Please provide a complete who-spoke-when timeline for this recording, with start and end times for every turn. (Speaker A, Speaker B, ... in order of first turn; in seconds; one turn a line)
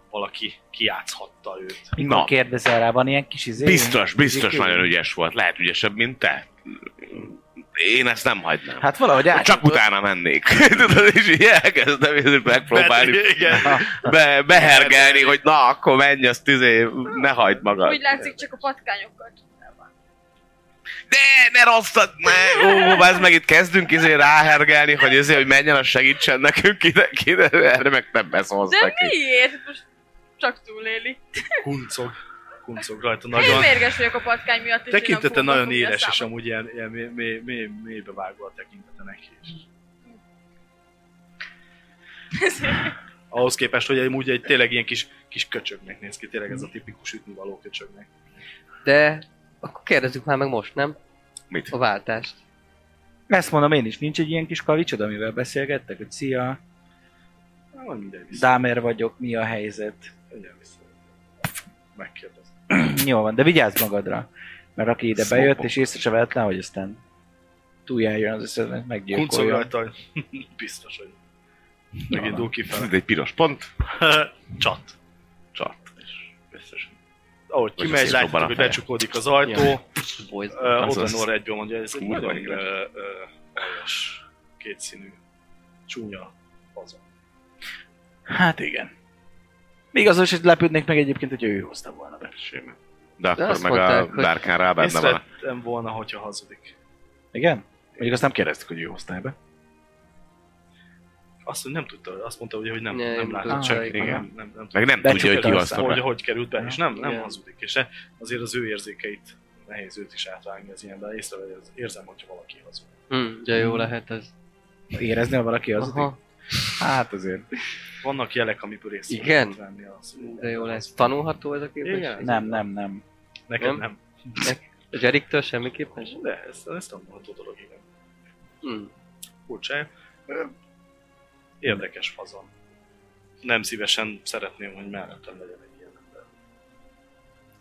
Speaker A: 0.1-1.9
Speaker B: 1.9-4.9
Speaker C: 2.0-2.3
Speaker C: 3.6-18.1
Speaker B: 8.8-9.8
Speaker A: 12.7-15.4
Speaker D: 17.8-19.9
Speaker C: 21.1-29.1
Speaker D: 22.4-23.1
Speaker D: 28.7-29.8
Speaker D: 30.4-31.6
Speaker A: 31.6-33.9
Speaker D: 33.4-36.3
Speaker A: 34.9-39.6
Speaker D: 42.3-42.9
Speaker A: 43.3-48.1
Speaker E: 48.8-51.0
Speaker E: 51.7-52.4
Speaker B: 53.3-56.6
Speaker A: 57.7-58.5
Speaker B: 58.3-60.1
Speaker A: 60.3-60.9
Speaker A: 61.9-62.5
Speaker B: 62.7-67.0
Speaker C: 65.1-65.8
Speaker B: 67.8-69.7
Speaker A: 69.1-71.2
Speaker A: 72.1-72.9
Speaker B: 72.1-72.4
Speaker C: 72.7-73.7
Speaker A: 73.8-74.9
Speaker C: 75.5-76.9
Speaker A: 77.5-79.9
Speaker C: 77.8-78.8
Speaker E: 79.4-80.8
Speaker A: 80.5-85.2
Speaker C: 80.8-81.3
Speaker C: 82.0-82.6
Speaker A: 85.9-87.0
Speaker B: 88.3-88.9
Speaker B: 89.9-92.3
Speaker C: 92.3-95.2
Speaker E: 93.3-94.4
Speaker A: 94.8-96.7
Speaker B: 97.3-99.3
Speaker A: 101.4-112.9
Speaker E: 102.9-104.1
Speaker B: 103.5-104.2
Speaker C: 103.9-106.0
Speaker B: 105.0-106.0
Speaker E: 106.9-107.3
Speaker E: 113.1-114.3
Speaker B: 113.6-113.9
Speaker B: 114.9-116.1
Speaker E: 115.8-116.2
Speaker B: 116.8-117.5
Speaker A: 118.0-121.2
Speaker E: 119.1-119.6
Speaker E: 120.2-122.6
Speaker A: 121.8-122.5
Speaker B: 122.2-123.0
Speaker A: 123.5-124.0
Speaker E: 124.4-126.2
Speaker A: 126.1-127.8
Speaker E: 128.6-128.9
Speaker A: 129.5-130.5
Speaker A: 131.6-132.5
Speaker A: 133.4-136.2